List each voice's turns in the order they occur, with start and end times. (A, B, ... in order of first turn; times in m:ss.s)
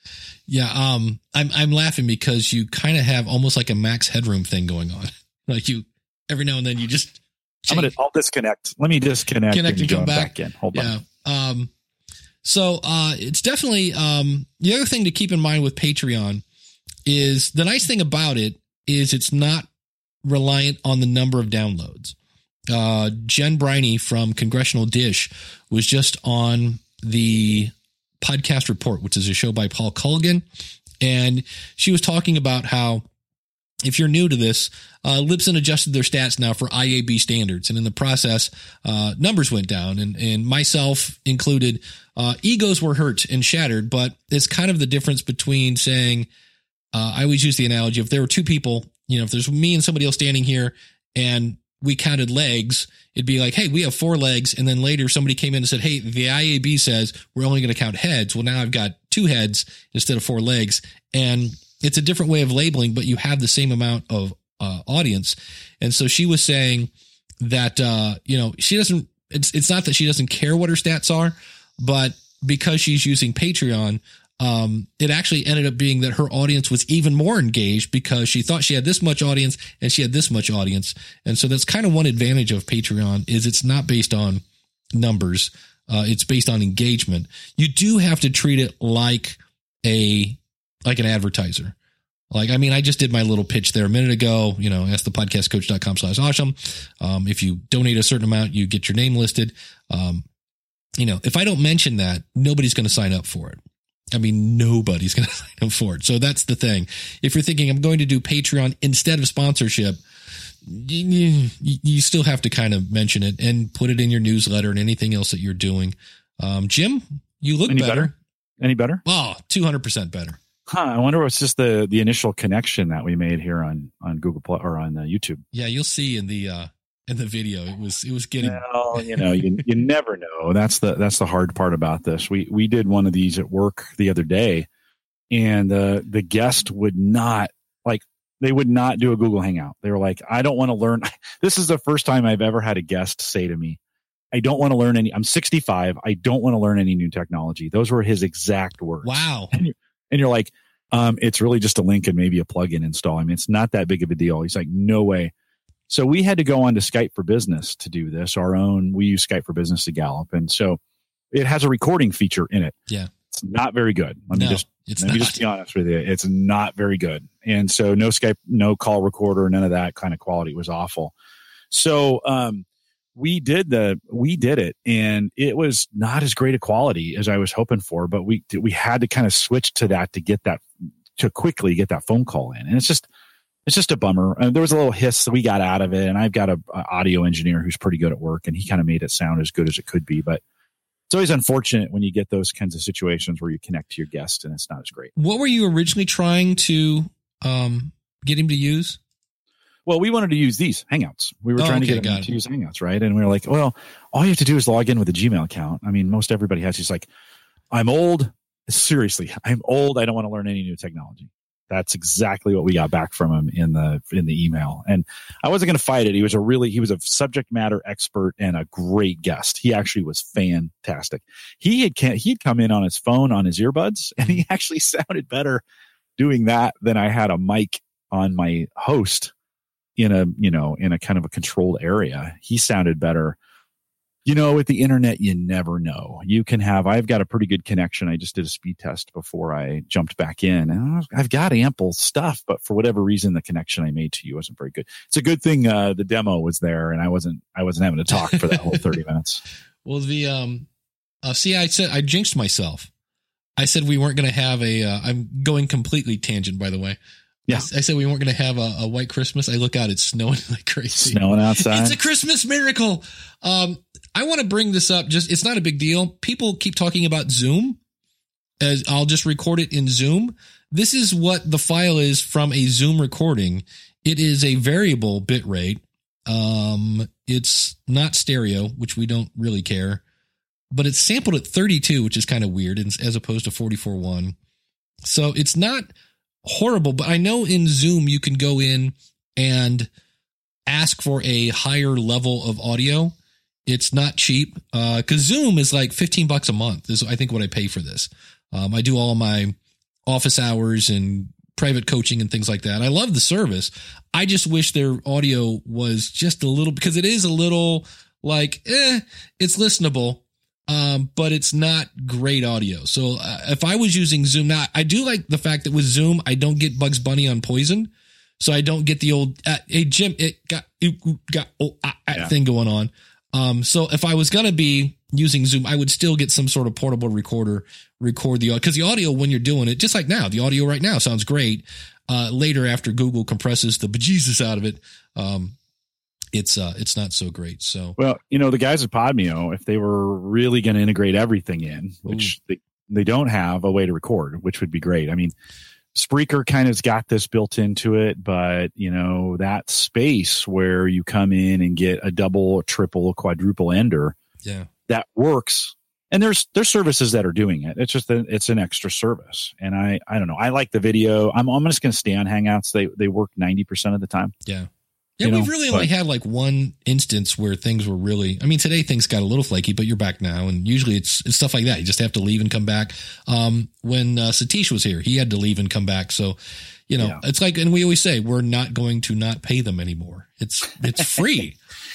0:00.5-0:07.9 A
0:07.7-0:10.9 B
0:09.5-0:11.7 A
0:12.4-0:16.4 A
0:17.0-0:19.7 A
0:20.2-0:22.1 A
0:22.7-0:30.4 A
0:31.0-0:33.0 A
0:33.8-0:46.3 A
0:46.9-1:06.9 A
1:07.4-1:24.4 A
1:24.9-1:31.7 A
1:32.3-1:40.2 A
1:41.0-1:43.6 A
1:44.1-1:50.0 A
1:50.6-1:58.2 A
1:57.7-1:59.0 B
1:59.0-2:00.4 A
2:00.7-2:05.4 B
2:05.5-2:09.6 A
2:08.4-2:14.7 B
2:15.3-2:23.8 B
2:24.3-2:35.3 B
2:29.0-2:29.5 A
2:35.9-2:40.8 B
2:41.3-2:42.8 B
2:43.3-2:51.1 B
2:44.3-2:45.4 A
2:51.7-2:52.6 B
2:53.2-3:00.6 B
3:01.2-3:03.1 B
3:03.6-3:10.4 B
3:11.1-3:15.1 B
3:15.2-3:19.0 A
3:19.9-3:27.1 B
3:21.6-3:22.3 A
3:27.7-3:45.6 B
3:46.2-3:49.3 B
3:50.0-3:53.4 B
3:54.2-4:09.4 B
4:08.2-4:08.8 A
4:09.8-4:10.7 A
4:11.2-4:12.9 A
4:13.6-4:17.0 A
4:17.5-4:27.8 A
4:20.9-4:22.0 B
4:28.6-4:40.0 A
4:40.7-4:44.3 A
4:45.0-4:45.9 A
4:46.4-4:49.9 A
4:50.7-4:53.1 A
4:53.7-4:59.5 A
5:00.0-5:35.6 A
5:36.3-5:38.0 A
5:38.0-5:45.3 B
5:45.9-5:54.2 B
5:54.4-5:54.7 A
5:54.9-6:04.3 B
6:04.4-6:16.4 A
6:05.2-6:05.9 B
6:16.9-6:21.6 A